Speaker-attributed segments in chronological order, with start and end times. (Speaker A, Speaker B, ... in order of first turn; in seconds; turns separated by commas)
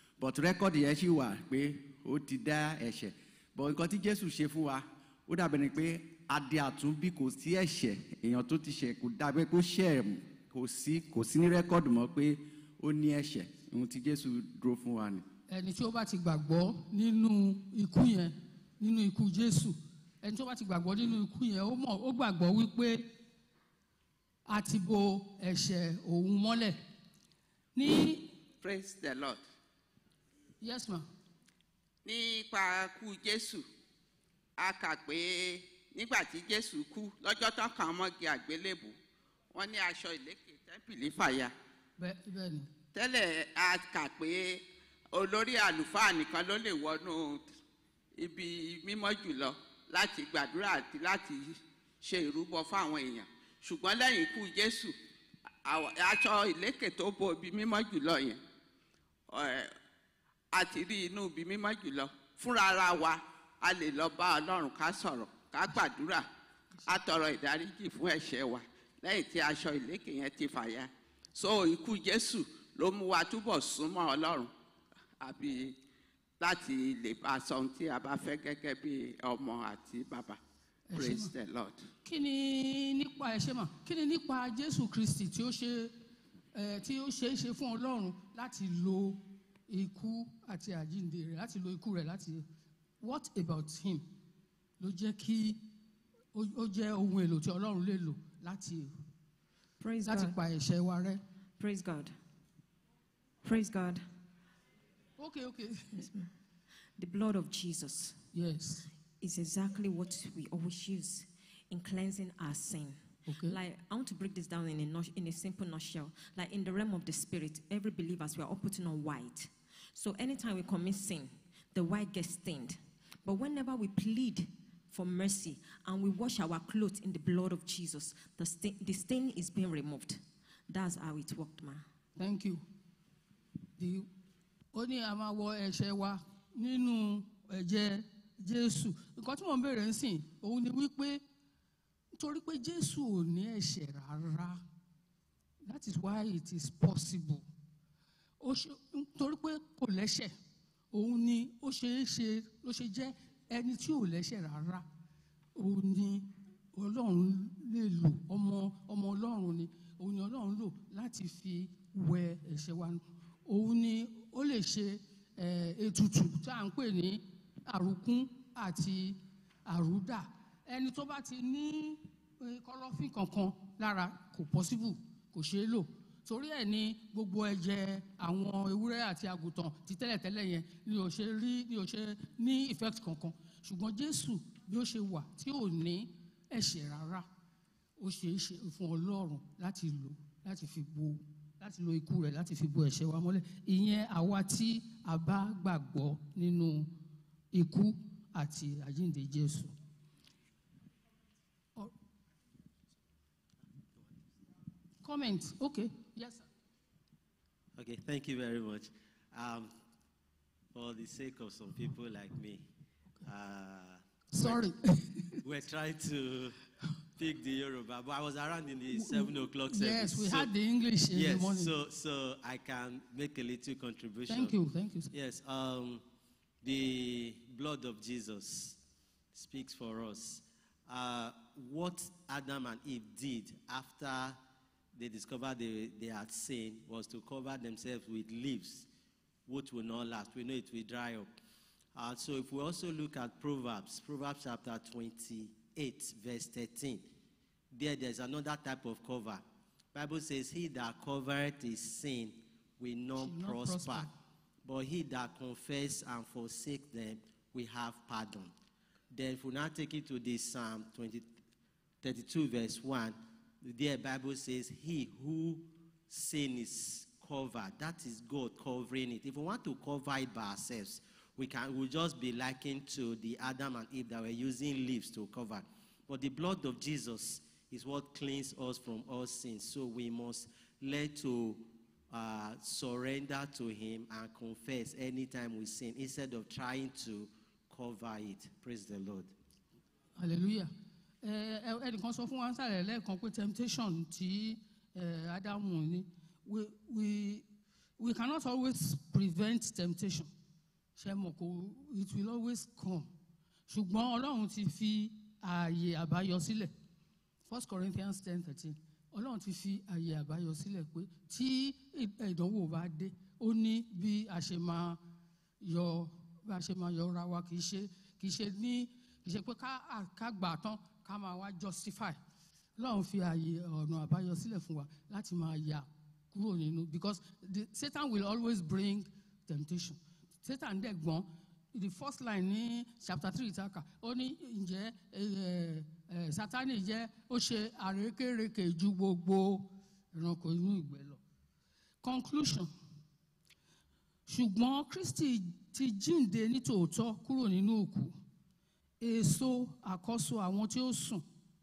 Speaker A: 0.2-15.2, Speaker B: 15.5-23.1, Speaker B: 24.5-26.8, Speaker B: 27.8-28.3, Speaker C: 28.6-29.4, Speaker B: 30.6-31.0, Speaker C: 32.0-33.6, Speaker C: 34.6-38.9, Speaker C: 39.5-41.5, Speaker B: 42.0-42.7, Speaker C: 42.9-44.6, Speaker C: 45.1-47.5, Speaker C: 48.2-54.9, Speaker C: 55.6-58.4, Speaker C: 59.3-59.7, Speaker C: 60.5-66.3, Speaker C: 66.9-74.5, Speaker C: 75.2-75.7, Speaker C: 76.4-80.4, Speaker B: 80.9-81.3, Speaker C: 81.0-81.9, Speaker B: 82.0-85.9, Speaker B: 86.5-92.4, Speaker B: 93.0-94.0, Speaker B: 94.8-95.6, Speaker B: 96.3-98.9, Speaker D: 99.8-100.3, Speaker B: 100.0-101.2, Speaker D: 101.6-102.1, Speaker D: 103.4-104.0, Speaker B: 105.2-106.0, Speaker D: 106.0-106.3, Speaker D: 107.0-108.2, Speaker B: 108.3-108.9, Speaker D: 109.2-131.8, Speaker B: 113.3-113.6, Speaker B: 132.2-132.6, Speaker B: 133.8-134.1, Speaker B: 134.7-141.2, Speaker B: 142.2-144.6, Speaker B: 145.6-147.4, Speaker B: 148.4-150.3, Speaker B: 150.9-154.8, Speaker B: 155.6-187.2, Speaker B: 188.0-196.9, Speaker B: 197.5-199.7, Speaker B: 205.0-206.4, Speaker E: 207.8-209.7, Speaker E: 210.7-212.7, Speaker E: 213.2-214.6, Speaker B: 214.3-215.4, Speaker E: 215.4-216.6, Speaker E: 217.2-220.5, Speaker B: 219.0-221.7, Speaker E: 221.1-224.6, Speaker B: 224.3-225.1, Speaker E: 225.1-226.0, Speaker E: 226.6-228.8, Speaker E: 229.3-234.4, Speaker E: 234.9-238.9, Speaker E: 239.5-241.3, Speaker E: 241.9-247.1, Speaker E: 247.7-254.1, Speaker B: 253.2-254.1, Speaker E: 254.6-258.5, Speaker E: 259.1-261.3, Speaker E: 262.0-289.3, Speaker B: 290.2-290.7, Speaker B: 291.2-297.5, Speaker B: 298.0-300.3, Speaker B: 301.0-303.1, Speaker B: 303.7-306.7, Speaker B: 307.4-315.0, Speaker B: 315.6-322.2, Speaker B: 322.8-341.2, Speaker B: 342.0-342.7, Speaker B: 344.3-348.1, Speaker B: 349.0-351.2